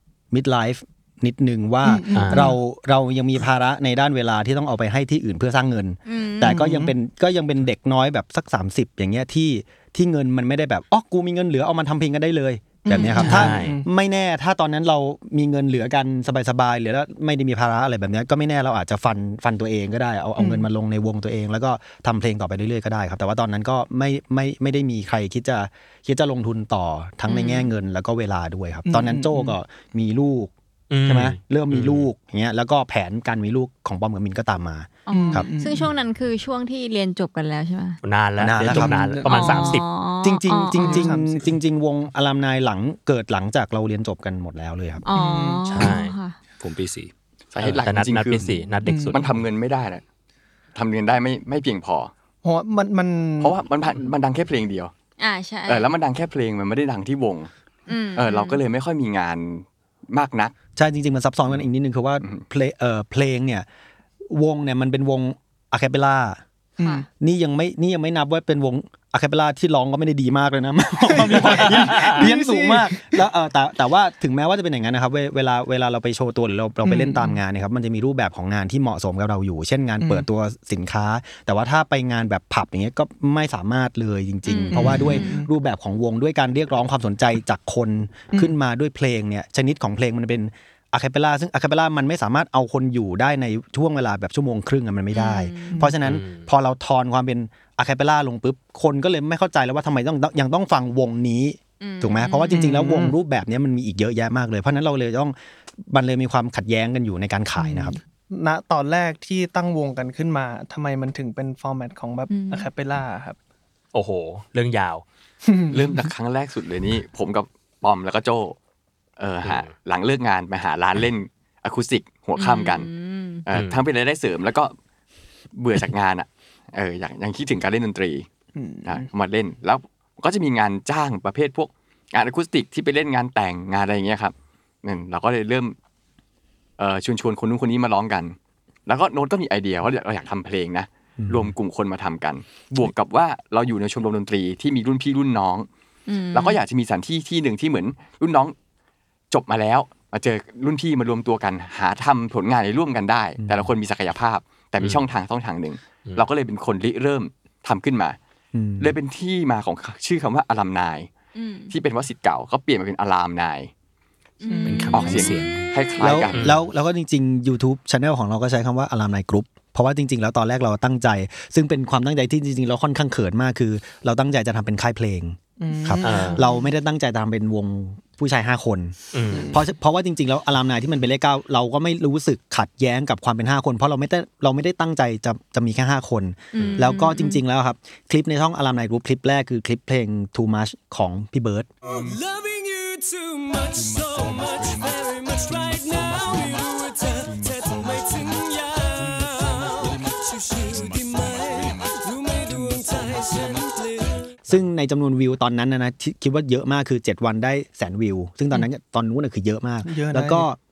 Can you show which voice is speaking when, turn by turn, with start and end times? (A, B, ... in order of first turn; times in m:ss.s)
0:00.3-0:30.5 A
0:01.8-0:02.6 B
0:02.2-0:02.4 C
0:06.1-0:06.6 D
0:06.4-0:06.9 B
0:12.8-0:13.9 B
0:13.2-0:13.8 C
0:20.4-0:20.7 B
0:27.3-0:27.7 D
0:28.9-0:29.6 B
0:30.9-0:32.1 C
0:31.0-0:35.5 A
0:35.1-0:38.0 D
0:35.1-0:35.9 B
0:38.0-0:39.8 C
0:38.4-0:39.0 A
0:38.7-0:39.8 B
0:39.2-0:41.1 D
0:40.2-0:45.0 A
0:40.8-0:41.5 B
0:45.0-0:46.4 D
0:45.2-0:45.9 B
0:45.7-0:46.2 C
0:46.6-0:47.8 E
0:47.5-0:48.5 F
0:47.6-0:49.4 C
0:48.8-0:49.3 B
0:49.1-0:50.0 F
0:50.8-0:52.1 F
0:52.4-0:53.6 B
0:53.4-0:54.9 F
0:55.2-0:55.9 D
0:55.7-0:57.5 F
0:57.9-0:58.6 D
0:58.2-1:00.5 F
1:00.8-1:03.7 A
1:04.3-1:06.4 A
1:06.8-1:07.0 B
1:06.8-1:07.0 D
1:07.2-1:45.4 A
1:11.1-1:13.2 B
1:11.7-1:12.2 C
1:16.8-1:17.4 B
1:20.0-1:20.3 B
1:24.5-1:25.4 D
1:24.7-1:25.5 B
1:35.1-1:35.9 D
1:36.0-1:36.5 C
1:41.8-1:42.8 D
1:42.5-1:43.2 B
1:45.9-1:48.0 A
1:47.6-1:53.4 B
1:52.3-1:52.7 D
1:53.9-1:55.0 C
1:55.4-1:56.1 B
1:55.7-1:58.6 F
1:59.2-2:02.9 F
2:02.4-2:03.4 D
2:03.5-2:04.8 F
2:03.5-2:03.8 C
2:05.6-2:08.3 F
2:08.6-2:09.1 B
2:08.9-2:14.3 F
2:14.8-2:15.8 F
2:16.8-2:18.4 F
2:18.9-2:25.7 F
2:21.2-2:21.5 A
2:26.1-2:26.6 D
2:26.3-2:28.6 F
2:29.3-2:38.2 F
2:33.4-2:33.7 A
2:38.5-2:38.9 A
2:38.8-2:41.1 F
2:41.3-2:41.7 D
2:41.7-2:43.7 F
2:44.4-2:45.7 D
2:44.5-2:45.4 B
2:44.6-2:45.7 E
2:44.9-2:46.5 F
2:46.0-2:59.0 A
2:46.3-2:46.6 C
2:55.6-2:56.4 B
2:56.0-2:56.4 C
2:56.4-2:56.7 D
2:59.1-2:59.6 C
2:59.3-2:59.6 B
2:59.5-3:11.7 A
3:06.5-3:07.4 D
3:06.6-3:07.0 C
3:11.8-3:24.5 G
3:24.5-3:30.6 A
3:29.8-3:30.5 B